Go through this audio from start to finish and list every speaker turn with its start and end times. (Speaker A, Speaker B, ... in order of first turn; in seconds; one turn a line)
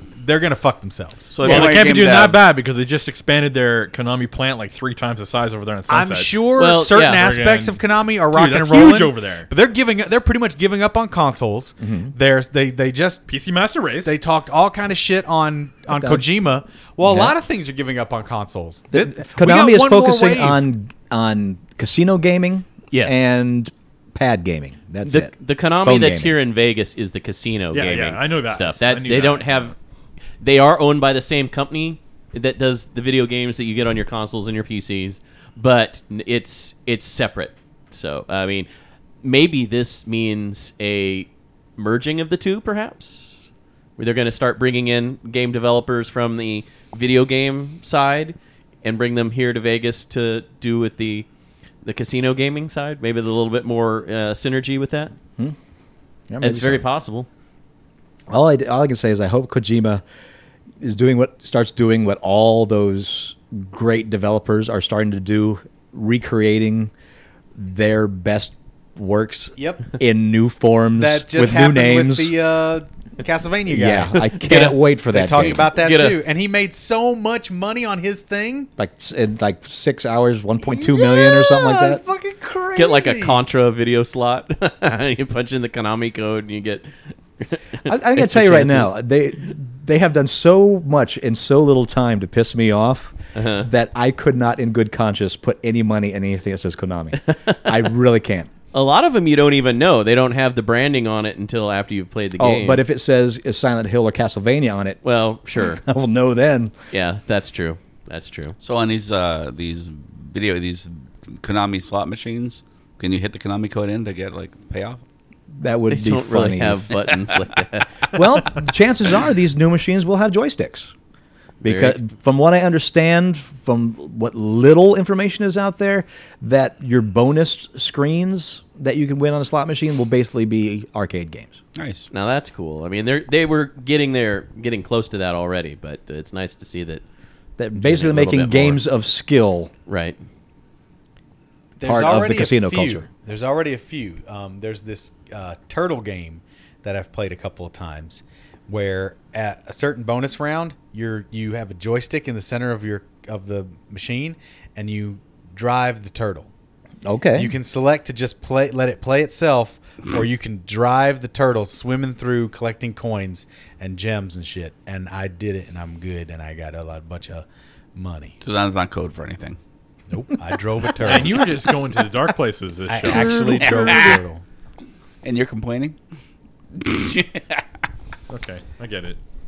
Speaker A: 0.2-1.4
Speaker B: 1.3-2.4
Speaker C: 1.4-6.4
Speaker A: 5.9-13.3
Speaker D: 6.6-7.3
Speaker C: 7.0-9.5
Speaker E: 11.8-12.1
Speaker C: 13.3-14.2
Speaker A: 14.0-20.6
Speaker E: 15.9-16.3
Speaker E: 17.0-17.4
Speaker E: 18.9-26.3
Speaker D: 22.9-23.3
Speaker D: 25.0-29.8
Speaker C: 27.7-29.6
Speaker D: 30.4-38.7
Speaker D: 39.2-43.4
Speaker D: 44.0-51.3
Speaker D: 51.8-55.1
Speaker E: 56.3-56.8
Speaker D: 56.4-57.3
Speaker E: 58.3-60.0
Speaker E: 60.8-66.9
Speaker E: 67.5-72.3
Speaker A: 69.6-69.9
Speaker A: 71.0-78.7
Speaker E: 73.7-75.7
Speaker D: 75.6-76.2
Speaker E: 78.8-82.0
Speaker A: 80.6-83.4
Speaker D: 82.8-89.0
Speaker E: 87.9-98.5
Speaker D: 93.3-93.7
Speaker D: 97.3-97.6
Speaker D: 98.7-102.8
Speaker E: 102.4-105.0
Speaker D: 105.0-105.8
Speaker E: 105.6-106.7
Speaker D: 106.9-108.6
Speaker B: 108.6-115.0
Speaker E: 115.6-116.9
Speaker D: 115.9-117.9
Speaker E: 118.1-120.9
Speaker E: 121.6-131.6
Speaker D: 121.6-122.0
Speaker B: 131.8-132.1
Speaker D: 132.1-137.0
Speaker E: 137.6-139.7
Speaker D: 137.8-138.8
Speaker D: 139.9-140.2
Speaker A: 141.8-156.5
Speaker E: 141.8-143.1
Speaker E: 157.0-157.5
Speaker A: 157.3-168.4
Speaker B: 168.4-169.6
Speaker A: 170.1-171.5
Speaker C: 171.0-174.0
Speaker A: 172.9-174.4
Speaker B: 173.6-174.2
Speaker B: 175.2-176.0
Speaker B: 176.8-177.6
Speaker C: 178.3-179.2